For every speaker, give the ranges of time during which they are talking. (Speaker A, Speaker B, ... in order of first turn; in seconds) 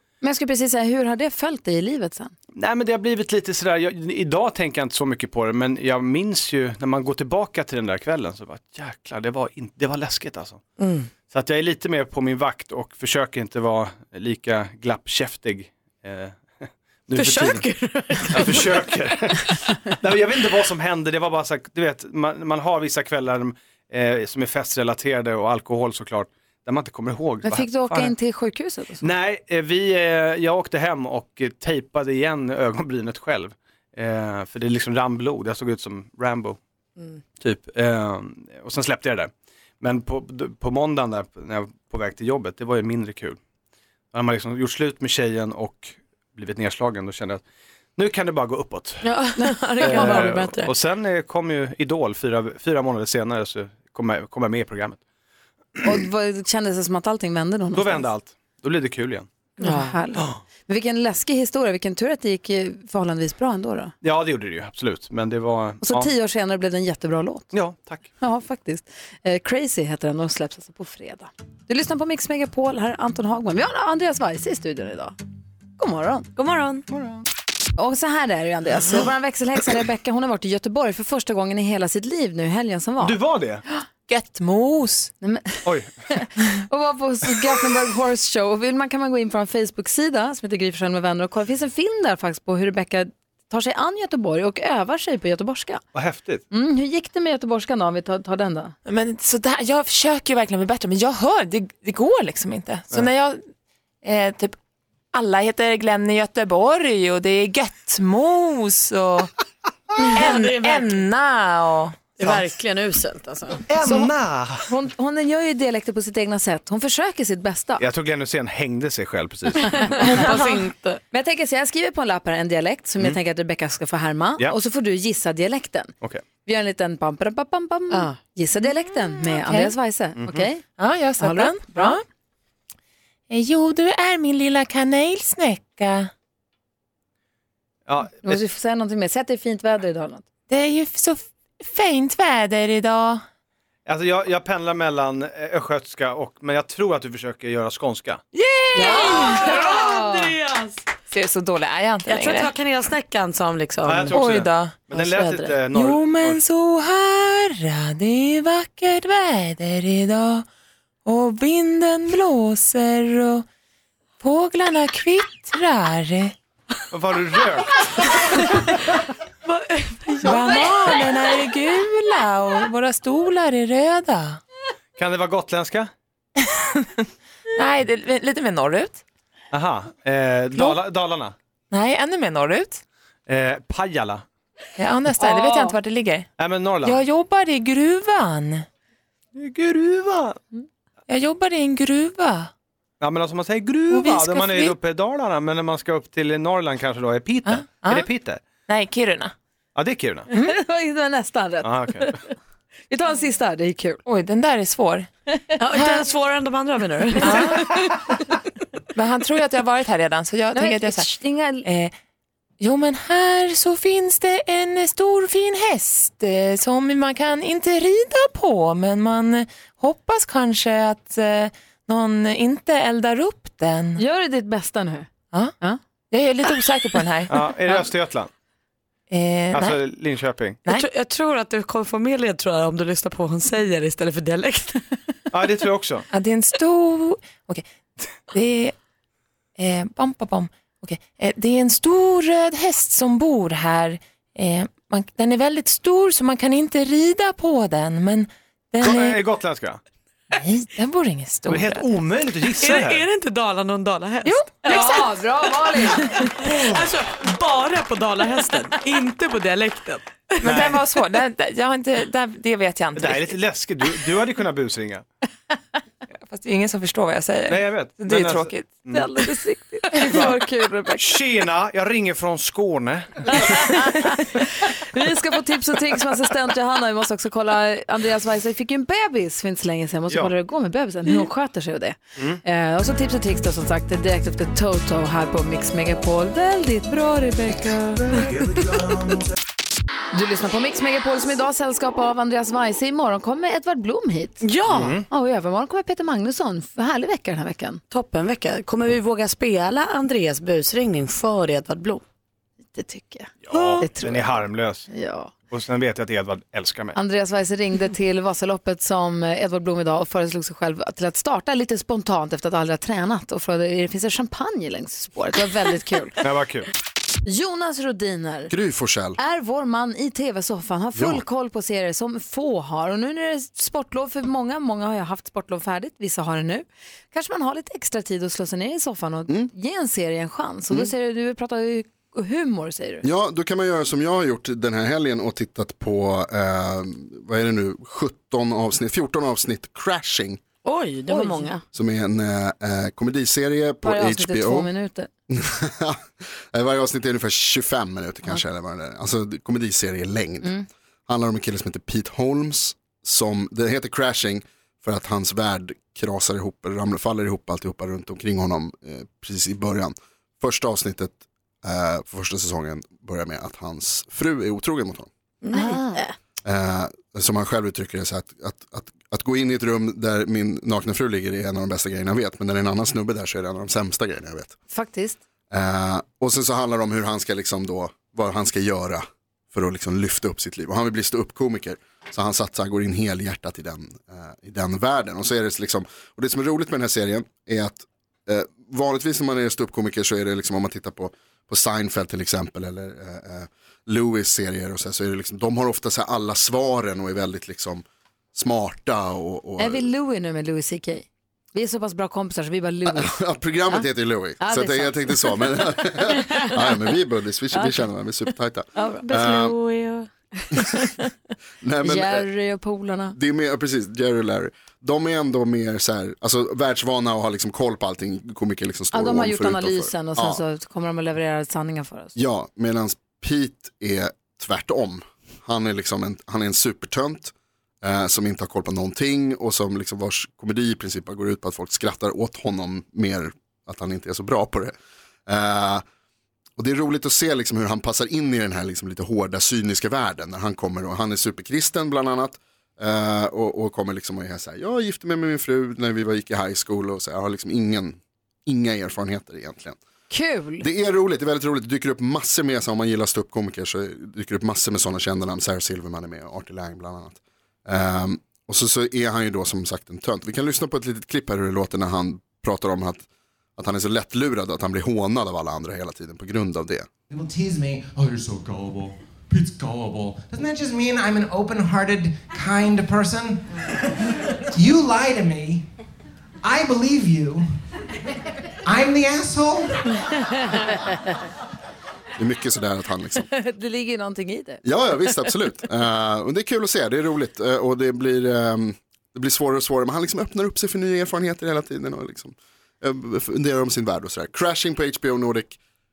Speaker A: 0.2-2.3, 27.4-29.1, 49.4-50.3, 55.8-58.1, 59.6-63.9, 65.8-67.5, 68.2-75.1, 75.8-76.3, 77.8-83.2, 85.2-95.8, 96.5-98.7, 114.7-117.9, 119.8-120.3, 121.1-125.9, 126.4-130.6, 131.2-132.0, 138.2-140.2, 148.7-150.3, 154.9-155.6, 185.2-185.8, 200.3-202.3, 202.9-204.0, 210.5-211.6, 224.0-225.8, 254.6-256.3, 268.9-271.1, 273.3-288.2, 290.1-297.8, 302.7-305.3, 306.9-316.1, 317.2-318.5, 319.2-333.0, 341.1-341.5, 343.8-345.1, 365.5-366.0, 374.7-375.2, 399.6-403.1, 403.7-406.5, 407.5-407.9, 408.7-409.5, 410.6-411.0, 411.8-413.1, 418.9-422.1, 450.1-450.6, 483.3-484.6
Speaker B: 2.5-10.6, 11.3-17.7, 18.3-28.1, 29.0-36.6, 37.4-43.4, 44.1-47.4, 48.0-49.0, 49.8-55.0, 57.7-59.3, 60.1-60.4, 64.0-66.1, 67.5-68.1, 76.9-77.2, 83.0-83.6, 85.6-86.1, 95.9-96.4, 113.7-114.7, 117.8-120.1, 130.2-130.5, 137.8-138.4, 143.8-148.2, 153.8-156.4, 166.9-168.1, 175.0-175.9, 179.5-181.3, 183.3-184.2, 186.4-187.0, 189.3-190.4, 193.0-198.6, 199.7-200.3, 201.6-202.2, 227.3-228.3, 229.5-230.6, 235.3-236.1, 248.8-249.8, 251.5-253.1, 260.4-260.8, 262.9-265.1, 267.5-269.1, 270.1-270.4, 271.0-273.9, 294.7-295.1, 303.4-304.9, 305.5-306.9, 316.2-316.7
Speaker C: 10.8-11.1, 17.1-18.9, 49.0-50.7, 59.6-60.0, 76.3-76.8, 110.0-111.0, 112.2-114.1, 119.6-121.0, 148.3-150.8, 152.1-154.2, 169.4-170.9, 205.6-207.7, 230.7-234.8, 252.6-260.8, 294.4-295.0, 297.9-302.0, 303.5-303.8, 340.6-341.6, 365.4-366.1, 409.1-410.1
Speaker D: 84.1-85.1, 98.8-103.4, 104.0-104.5, 105.1-109.3, 110.1-112.1, 120.1-120.7, 128.6-129.8, 130.7-132.0, 133.3-136.1, 140.5-143.2, 151.1-152.5, 154.1-154.9, 155.7-160.4, 161.0-163.4, 164.2-166.3, 170.2-174.4, 177.6-179.0, 181.7-182.8, 184.8-186.3, 186.8-188.6, 191.1-192.5, 193.9-194.7, 197.4-198.1, 198.7-199.3, 204.1-205.1, 205.7-206.0, 207.2-207.7, 208.9-211.1, 211.6-211.9, 212.6-224.0, 226.1-227.3, 229.1-229.8, 236.1-237.6, 238.3-238.7, 239.6-249.2, 250.3-251.9, 254.2-255.1, 260.4-263.4, 266.3-268.8
Speaker E: 318.5-319.2, 320.9-321.2, 333.0-340.4, 341.7-344.7, 345.3-365.1, 366.4-374.6, 375.5-399.9, 402.9-409.6, 411.6-412.3, 413.1-420.4, 422.1-434.7, 435.3-435.8, 436.6-449.8, 450.6-463.1, 463.6-466.9, 482.2-483.3, 484.6-495.6
Speaker F: 467.1-473.7, 474.5-475.7, 476.4-477.6, 478.6-480.0